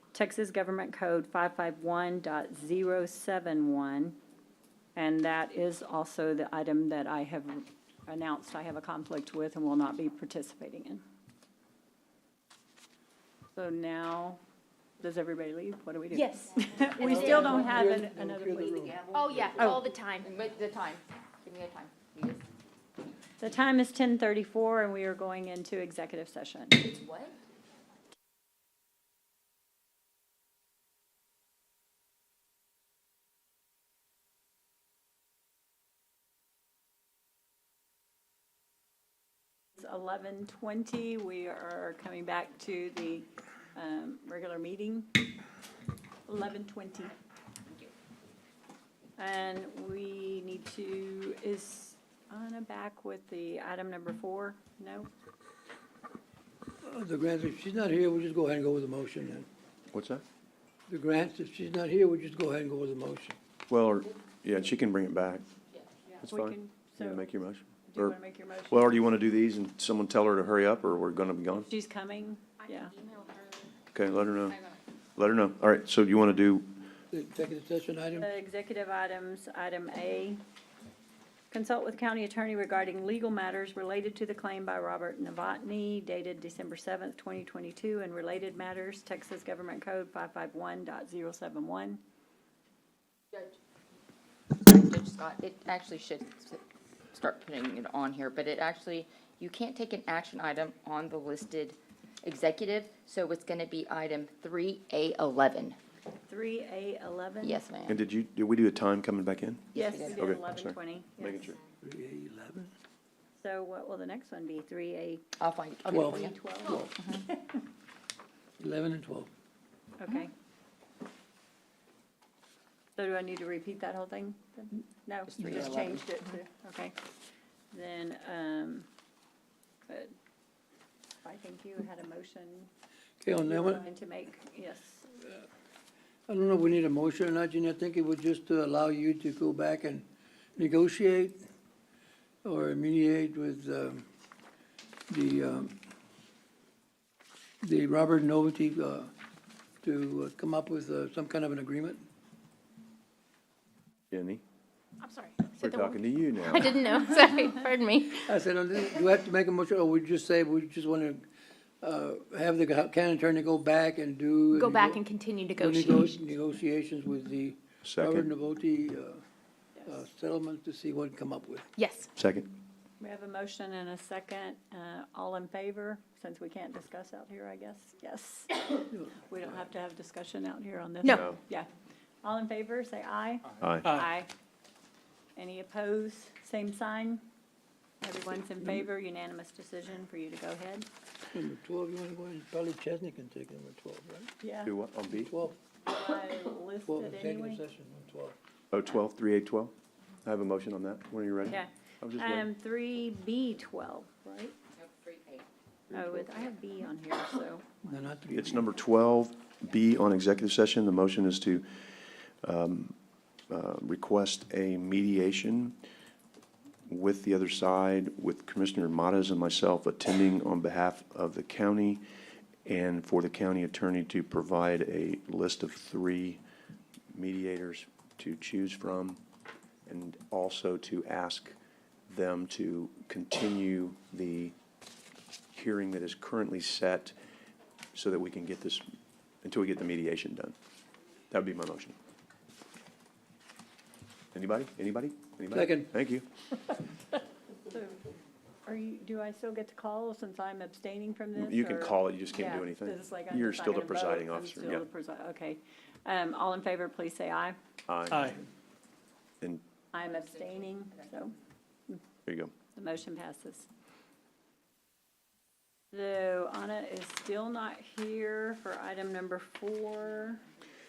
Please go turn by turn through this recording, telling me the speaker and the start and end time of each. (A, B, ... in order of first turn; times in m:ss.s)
0:00.1-0:04.2 A
0:05.0-0:11.0 A
0:13.5-0:14.4 A
0:15.0-0:18.9 A
0:16.1-0:17.8 B
0:17.0-0:19.8 C
0:17.1-0:17.7 D
0:19.1-0:20.3 B
0:19.6-0:19.9 A
0:20.2-0:22.4 D
0:23.4-0:26.9 A
0:26.8-0:27.4 D
0:39.8-0:45.3 A
0:46.3-0:47.1 A
0:49.2-0:55.1 A
0:56.8-0:59.5 C
0:59.9-1:00.2 E
1:00.9-1:03.4 C
1:03.7-1:05.5 E
1:06.2-1:07.2 A
1:06.2-1:08.2 E
1:07.9-1:08.9 A
1:08.7-1:11.7 E
1:11.7-1:13.0 A
1:13.0-1:13.7 B
1:13.9-1:14.6 E
1:15.2-1:16.7 E
1:17.1-1:18.3 C
1:18.2-1:20.4 A
1:21.5-1:32.0 A
1:34.6-1:36.6 D
1:37.1-1:45.8 D
1:46.3-1:47.6 A
1:47.4-1:48.0 D
1:47.9-1:51.6 E
1:49.7-1:50.3 D
1:49.8-1:51.6 A
1:51.8-1:52.7 C
1:53.4-1:55.2 A
1:55.4-1:56.4 D
1:55.9-1:56.9 C
1:56.0-1:57.4 A
1:57.0-1:57.2 D
1:58.6-1:59.3 C
2:00.0-2:00.3 A
2:03.0-2:07.0 A
2:05.3-2:06.1 D
2:07.7-2:08.9 A
2:09.9-2:10.1 A
2:11.2-2:12.7 A
2:13.2-2:13.8 C
2:13.4-2:15.2 A
2:16.3-2:20.1 C
2:20.6-2:21.4 C
2:22.4-2:24.0 C
2:25.1-2:25.8 C
2:27.6-2:29.1 C
2:29.8-2:32.0 C
2:34.1-2:34.4 E
2:35.0-2:38.3 B
2:35.6-2:37.0 E
2:38.2-2:41.2 C
2:41.8-2:49.2 C
2:44.5-2:46.2 B
2:47.8-2:48.3 E
2:49.8-2:51.7 C
2:51.8-2:52.1 B
2:52.2-2:52.5 E
2:53.0-3:01.7 A
3:01.0-3:01.3 B
3:01.1-3:01.4 E
3:02.2-3:04.3 A
3:03.6-3:03.9 E
3:05.4-3:07.2 A
3:08.0-3:10.9 A
3:11.3-3:14.3 C
3:14.4-3:14.7 A
3:14.6-3:15.3 E
3:15.1-3:15.6 C
3:15.9-3:17.6 A
3:16.9-3:18.4 C
3:18.7-3:19.7 E
3:20.2-3:22.5 E
3:21.5-3:24.6 A
3:24.8-3:25.5 D
3:25.9-3:27.6 A
3:27.8-3:28.7 C
3:28.3-3:31.7 E
3:32.4-3:33.0 E
3:33.5-3:35.8 E
3:36.9-3:42.0 E
3:42.6-3:46.4 E
3:47.1-3:49.2 E
3:49.9-3:51.6 E
3:52.1-3:54.5 E
3:55.5-3:57.2 E
3:57.9-3:58.9 E
3:59.4-4:00.6 E
4:01.3-4:02.0 E
4:04.3-4:06.3 E
4:05.5-4:05.9 C
4:07.7-4:08.0 A
4:08.7-4:17.6 A
4:11.4-4:14.9 E
4:17.9-4:18.4 E
4:19.9-4:21.3 A
4:22.3-4:22.5 E
4:22.8-4:23.7 A
4:25.9-4:30.4 A